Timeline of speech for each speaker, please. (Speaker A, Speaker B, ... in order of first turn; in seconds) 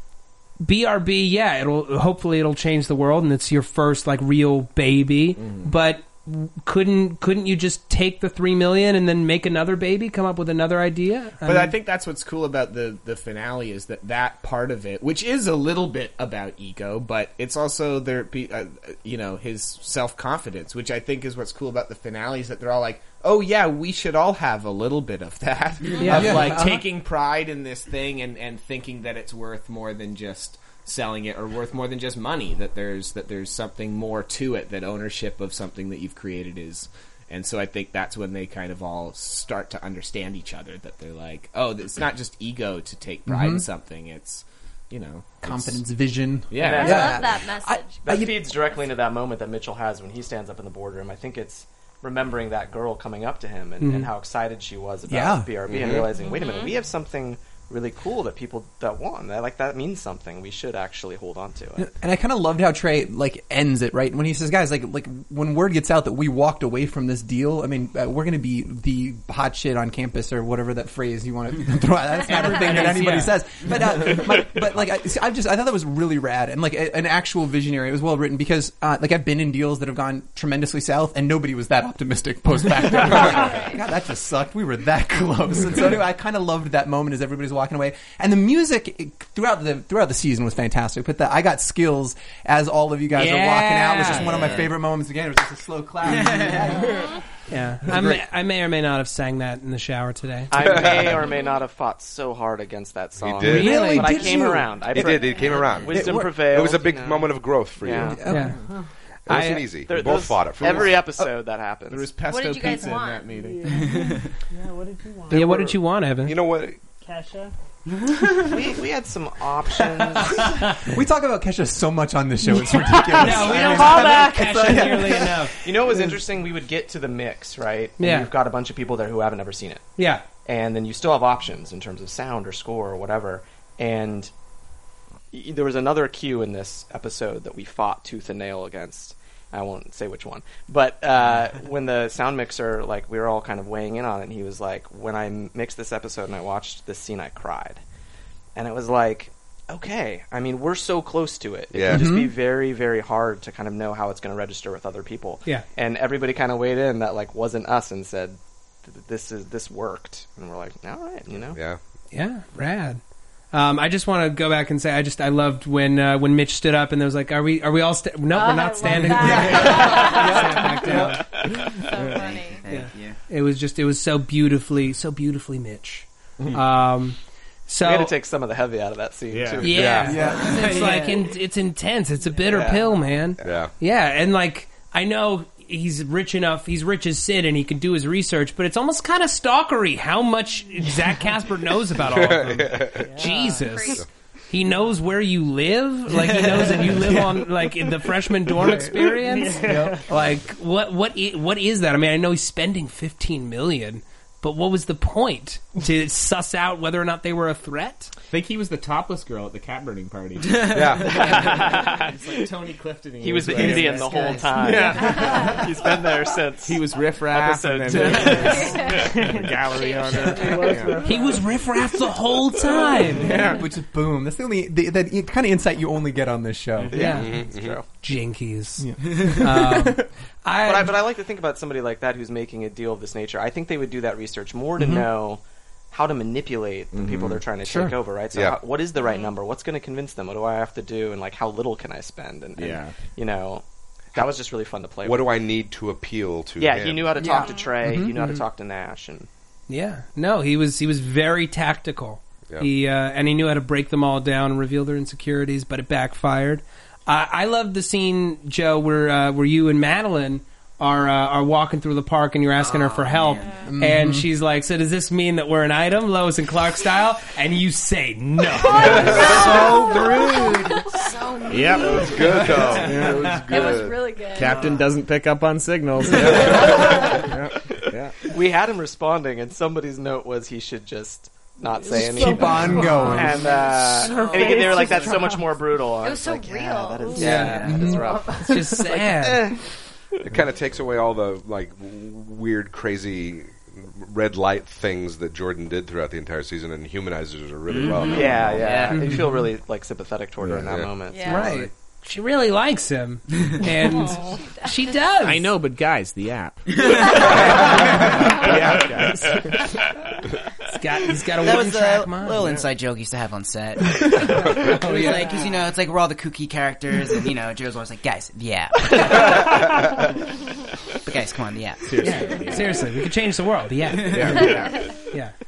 Speaker A: 0.6-11.8, 26.0-26.6, 53.8-54.1, 72.3-73.4, 93.1-94.5, 97.5-100.5, 103.5-104.3, 108.3-108.6, 109.3-109.7, 115.3-116.3, 123.1-125.5, 128.0-128.3, 130.0-130.2, 162.1-163.0, 163.5-171.2, 172.7-178.1, 179.6-208.1, 221.1-223.4, 226.9-227.3, 228.0-231.0, 249.7-269.4, 287.1-289.5, 298.9-299.2, 301.2-305.5, 310.7-312.5, 314.4-315.4, 322.0-324.6
Speaker B: 5.4-5.7, 11.4-45.8, 46.5-47.1, 55.7-56.0, 111.9-113.9, 171.9-172.3, 179.3-179.7, 208.3-215.8, 216.6-221.0, 223.2-223.6, 236.9-237.4, 242.6-243.0, 271.5-272.1, 272.8-273.4, 274.4-278.3, 305.2-309.6, 312.4-312.6, 321.9-322.7, 324.1-324.9
Speaker C: 26.0-26.9, 43.3-43.6, 45.4-48.4, 55.1-55.6, 61.8-97.1, 97.8-98.2, 103.5-104.8, 105.9-106.3, 108.2-108.5, 115.3-115.7, 120.8-126.1, 151.9-152.3, 168.8-171.2, 180.1-180.9, 196.9-197.5, 198.6-200.1, 223.4-227.0, 228.8-229.7, 234.8-235.1, 237.7-237.9, 247.2-248.1, 263.6-264.3, 282.0-283.5, 287.4-288.1
Speaker D: 46.5-47.2, 48.0-61.9, 100.5-108.2, 109.9-112.1, 118.5-120.6, 125.6-129.9, 130.4-134.3, 135.3-147.8, 148.6-161.6, 171.1-171.4, 177.8-180.3, 182.5-182.9, 211.0-212.4, 213.2-219.1, 226.9-227.9, 230.6-245.4, 246.6-249.3, 278.3-289.6, 298.0-301.7
Speaker E: 46.6-48.0, 56.1-56.8, 83.3-83.8, 112.3-113.4, 168.3-170.7, 171.8-172.7, 193.3-194.0, 215.1-215.6, 218.3-219.1, 219.7-220.8, 239.0-239.3, 247.3-247.7, 263.4-263.7, 268.7-269.9, 270.5-272.8, 273.5-274.8, 283.5-285.1, 286.0-288.4, 301.1-301.5, 303.8-305.0, 324.4-324.9
Speaker F: 94.0-94.7, 96.1-96.7, 113.7-114.2, 117.9-118.5, 172.0-173.2, 180.4-181.3, 196.3-196.7, 213.5-214.9, 262.6-263.6, 269.0-271.0, 297.7-299.1, 306.7-307.7, 311.4-319.5, 321.1-322.2, 323.9-324.5
Speaker G: 100.6-101.3, 103.2-104.2, 104.9-108.2, 109.3-111.1, 116.2-116.8, 151.7-152.2, 161.5-161.8, 179.7-180.3, 183.4-183.7, 192.0-193.2, 210.7-211.7, 227.0-227.8, 238.3-238.6, 245.0-247.3, 271.8-274.0, 276.1-277.0, 290.2-298.8, 300.5-300.9
Speaker H: 113.3-115.5, 117.0-117.5, 123.4-124.7, 193.0-193.5, 199.2-200.0, 218.9-219.6, 220.3-221.6, 281.8-285.5